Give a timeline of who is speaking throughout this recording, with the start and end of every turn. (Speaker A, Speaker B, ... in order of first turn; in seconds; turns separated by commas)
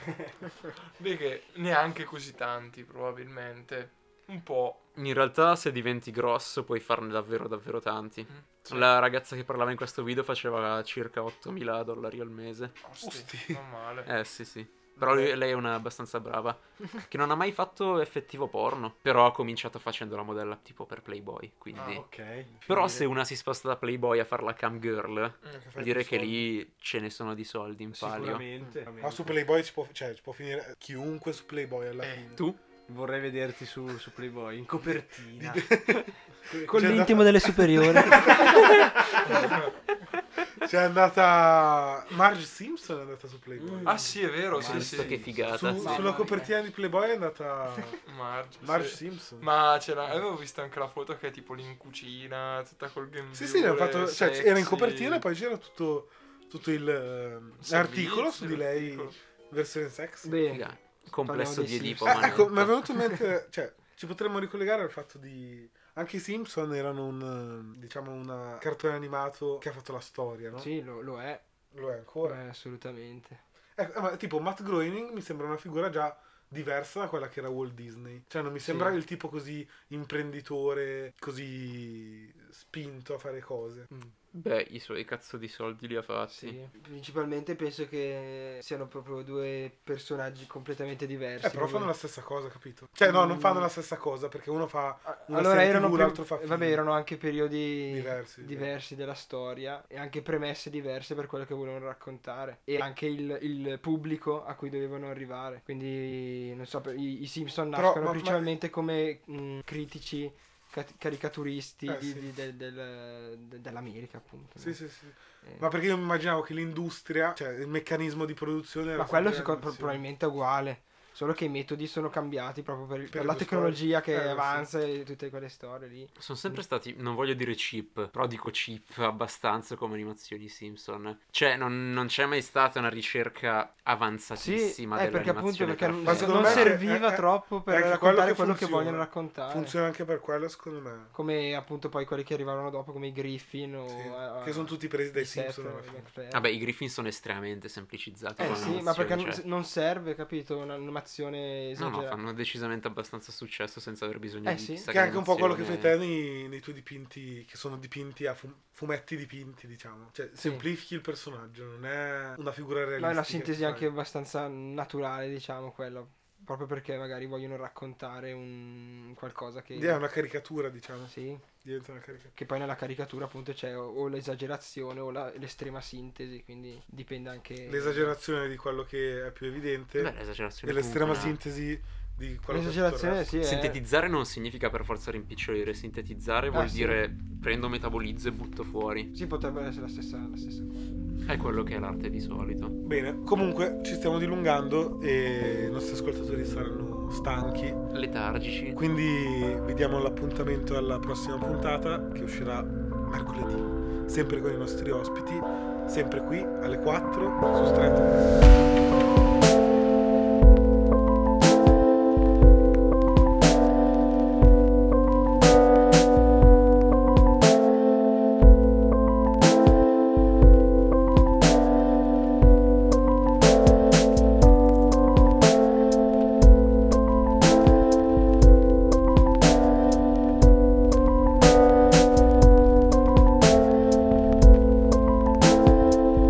Speaker A: 1.0-4.8, Speaker B: 5.0-12.7, Speaker A: 8.3-8.9, Speaker A: 12.8-14.1, Speaker C: 13.0-13.6, Speaker B: 14.1-22.0, Speaker C: 15.0-15.3, Speaker A: 21.7-22.0, Speaker D: 21.8-23.1, Speaker B: 22.6-28.4, Speaker C: 25.5-26.4, Speaker D: 27.9-29.3, Speaker C: 29.0-32.4, Speaker A: 32.0-32.3, Speaker D: 32.9-35.9, Speaker C: 35.4-38.6, Speaker D: 36.5-37.1, Speaker E: 36.6-39.5, Speaker D: 38.1-38.5, Speaker A: 39.3-39.7, Speaker C: 40.6-44.0, Speaker D: 43.6-46.3, Speaker A: 43.9-45.2, Speaker B: 44.6-45.8, Speaker C: 45.5-48.0, Speaker E: 45.8-46.5, Speaker A: 48.0-55.2, Speaker C: 48.6-49.5, Speaker C: 53.3-60.4, Speaker A: 57.6-59.1, Speaker E: 60.2-60.6, Speaker B: 60.5-62.8, Speaker E: 61.2-63.2, Speaker C: 62.0-70.7, Speaker E: 70.5-71.4, Speaker C: 71.7-72.4, Speaker E: 72.2-73.4, Speaker C: 73.8-83.9, Speaker E: 78.6-79.0, Speaker B: 84.3-86.6, Speaker E: 86.3-91.9, Speaker C: 91.4-96.8, Speaker E: 93.0-93.7, Speaker E: 95.0-114.8, Speaker C: 97.9-98.7, Speaker C: 107.7-108.5, Speaker C: 111.9-112.3, Speaker C: 114.6-120.0, Speaker E: 119.0-126.6, Speaker C: 123.1-124.7, Speaker B: 126.2-136.8, Speaker E: 134.3-139.8, Speaker C: 136.0-141.1, Speaker E: 141.1-146.5, Speaker C: 143.9-146.0, Speaker B: 146.3-149.4, Speaker E: 148.4-152.2, Speaker B: 151.8-156.0, Speaker E: 154.4-154.9, Speaker C: 154.9-163.9, Speaker E: 160.4-160.7, Speaker E: 163.0-170.0, Speaker C: 169.8-172.3, Speaker E: 171.1-171.5, Speaker E: 172.3-178.1, Speaker C: 177.7-183.3, Speaker B: 180.0-181.4, Speaker E: 182.5-183.8, Speaker B: 183.4-189.1, Speaker E: 186.5-187.0, Speaker E: 189.1-191.0, Speaker B: 191.2-192.8, Speaker C: 192.8-197.8, Speaker B: 197.9-198.8, Speaker C: 198.7-208.2